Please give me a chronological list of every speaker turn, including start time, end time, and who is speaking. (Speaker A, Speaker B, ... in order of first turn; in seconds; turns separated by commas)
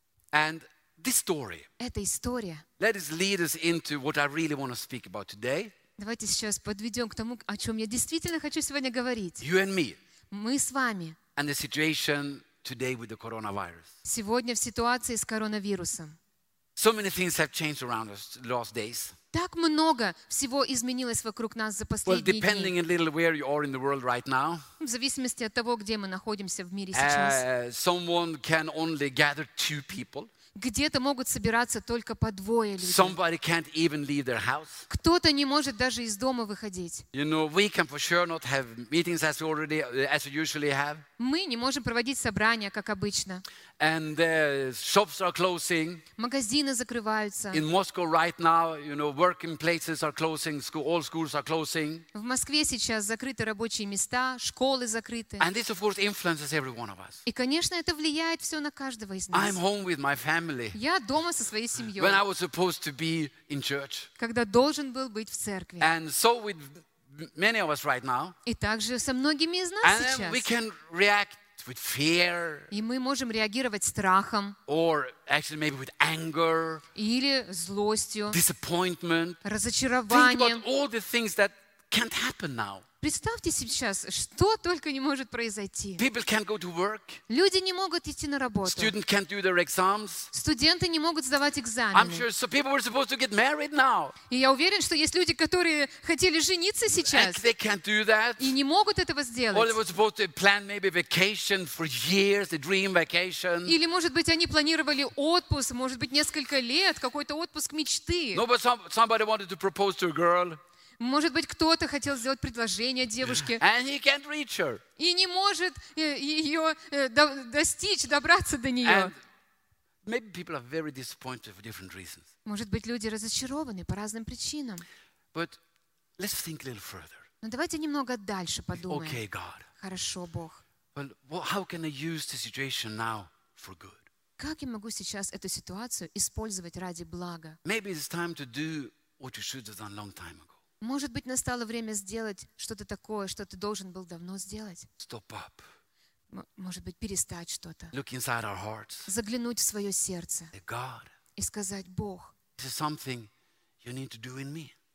Speaker A: 0.3-1.7, Speaker B: 1.8-2.6, Speaker A: 2.8-5.7, Speaker B: 6.0-9.4, Speaker A: 9.4-10.0, Speaker B: 10.3-11.2, Speaker A: 11.3-13.9, Speaker B: 14.0-16.2, Speaker A: 16.8-19.1, Speaker B: 19.3-22.7, Speaker A: 22.1-24.6, Speaker B: 24.8-27.4, Speaker A: 26.9-30.3, Speaker B: 30.5-33.1, Speaker A: 32.8-34.9, Speaker B: 34.9-37.0, Speaker A: 37.1-41.0, Speaker B: 41.2-43.4, Speaker A: 43.8-46.0, Speaker B: 46.2-47.6, Speaker A: 47.5-52.0, Speaker B: 52.1-55.5, Speaker A: 55.4-57.2, Speaker B: 57.2-59.6, Speaker A: 59.3-60.8, Speaker B: 60.7-62.2, Speaker A: 62.0-64.1, Speaker B: 64.2-65.9, Speaker A: 65.8-68.3, Speaker B: 68.4-70.5, Speaker A: 69.8-72.7, Speaker B: 72.7-74.6, Speaker A: 74.7-76.8, Speaker B: 76.9-78.4, Speaker A: 78.3-79.4, Speaker B: 79.4-80.6, Speaker A: 80.1-82.8, Speaker B: 83.0-86.0, Speaker A: 86.0-87.2, Speaker B: 87.3-88.9, Speaker A: 88.6-90.3, Speaker B: 90.3-92.2, Speaker A: 91.9-94.1, Speaker B: 94.3-97.4, Speaker A: 96.9-98.5, Speaker B: 98.4-99.8, Speaker A: 99.5-103.7, Speaker B: 103.7-108.4, Speaker A: 108.3-110.6, Speaker B: 111.0-113.6, Speaker A: 113.2-114.8, Speaker B: 115.0-119.1, Speaker A: 118.8-119.2, Speaker A: 120.0-122.3, Speaker B: 122.4-124.8, Speaker A: 125.3-125.6, Speaker A: 126.2-127.2, Speaker B: 127.4-129.2, Speaker A: 128.8-129.7, Speaker B: 129.8-130.6, Speaker A: 130.9-134.0, Speaker B: 134.4-137.6, Speaker A: 137.6-140.5, Speaker B: 140.8-144.9, Speaker A: 145.0-145.7, Speaker B: 146.3-147.9, Speaker A: 147.9-149.1, Speaker B: 149.1-150.5, Speaker A: 150.5-151.1, Speaker B: 151.4-152.3, Speaker A: 152.6-153.3, Speaker A: 153.8-154.7